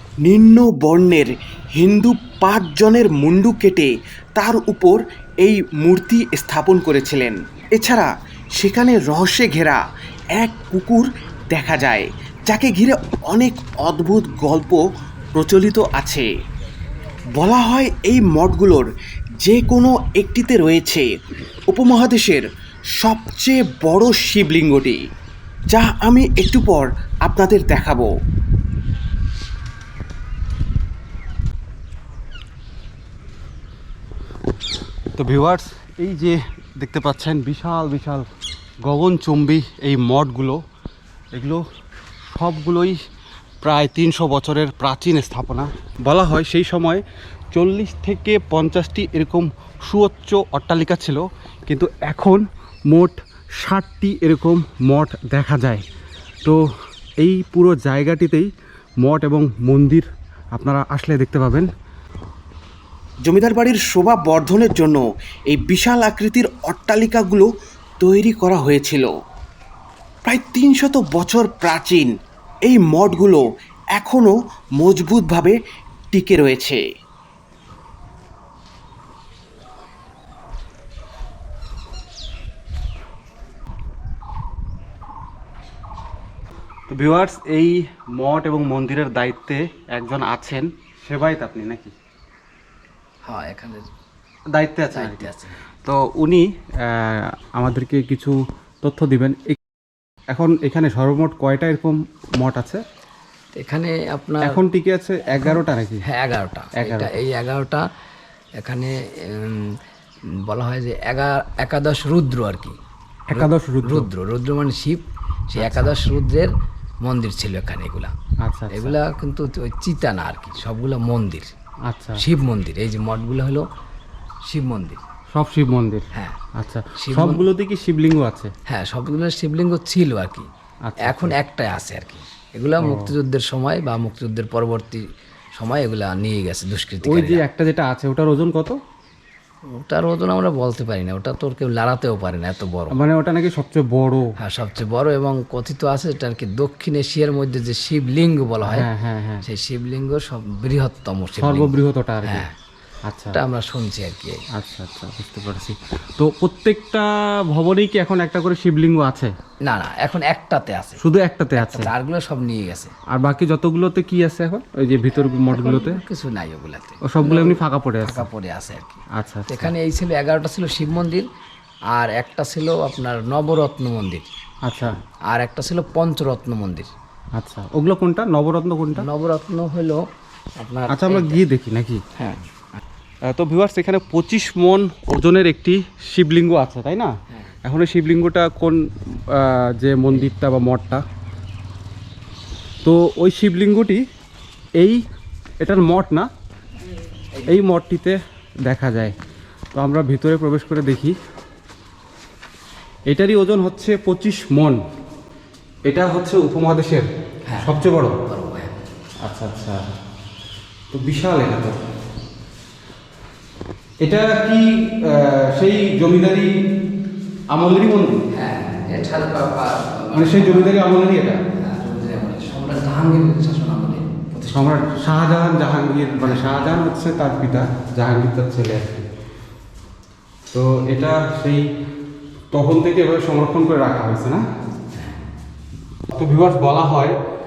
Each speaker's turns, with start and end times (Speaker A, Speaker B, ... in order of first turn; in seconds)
Speaker A: 0.2-9.8, 10.3-14.8, 15.3-16.3, 17.4-18.9, 19.4-21.1, 21.7-22.4, 23.0-25.0, 25.7-28.1, 63.2-67.5, 68.0-69.1, 70.2-72.1, 72.7-75.6, 76.1-76.8
Speaker B: 35.2-38.2, 38.8-40.6, 41.3-41.6, 42.3-43.0, 43.6-55.8, 57.2-58.5, 59.0-61.7, 86.9-91.9, 94.5-95.3, 95.8-99.6, 100.3-102.8, 104.4-106.0, 106.8-107.2, 113.3-114.1, 115.6-116.0, 118.4-119.0, 121.9-122.2, 125.3-126.0, 126.6-128.5, 130.8-131.3, 132.8-133.1, 137.1-138.8, 142.9-144.3, 148.7-149.4, 151.4-152.5, 153.1-153.4, 154.5-159.3, 161.0-161.9, 163.1-166.0, 167.0-168.3, 169.1-169.7, 174.7-175.0, 177.4-179.1, 180.9-182.0, 183.3-187.1, 187.7-191.0, 192.8-194.0, 195.6-196.3, 197.5-199.2, 199.8-201.2, 203.1-204.8, 205.9-207.1, 207.6-208.2, 209.2-209.8, 210.9-211.8, 214.0-216.5, 217.5-218.2, 220.1-221.4, 224.5-229.1, 230.5-231.7, 232.5-234.5, 236.1-237.2
Speaker C: 93.2-93.9, 94.9-95.6, 103.6-104.6, 105.3-107.8, 108.6-109.8, 110.4-112.8, 113.3-118.1, 118.7-121.5, 122.2-123.7, 124.5-125.0, 126.1-126.4, 127.0-127.4, 128.7-130.5, 131.0-135.0, 135.6-137.4, 139.7-143.0, 144.4-148.9, 149.4-152.6, 153.3-154.4, 159.6-161.0, 161.6-162.9, 165.5-171.3, 171.9-174.3, 175.3-176.9, 179.0-180.0, 180.6-181.4, 182.2-182.8, 208.2-208.7, 218.3-220.7, 221.5-225.2, 226.2-226.7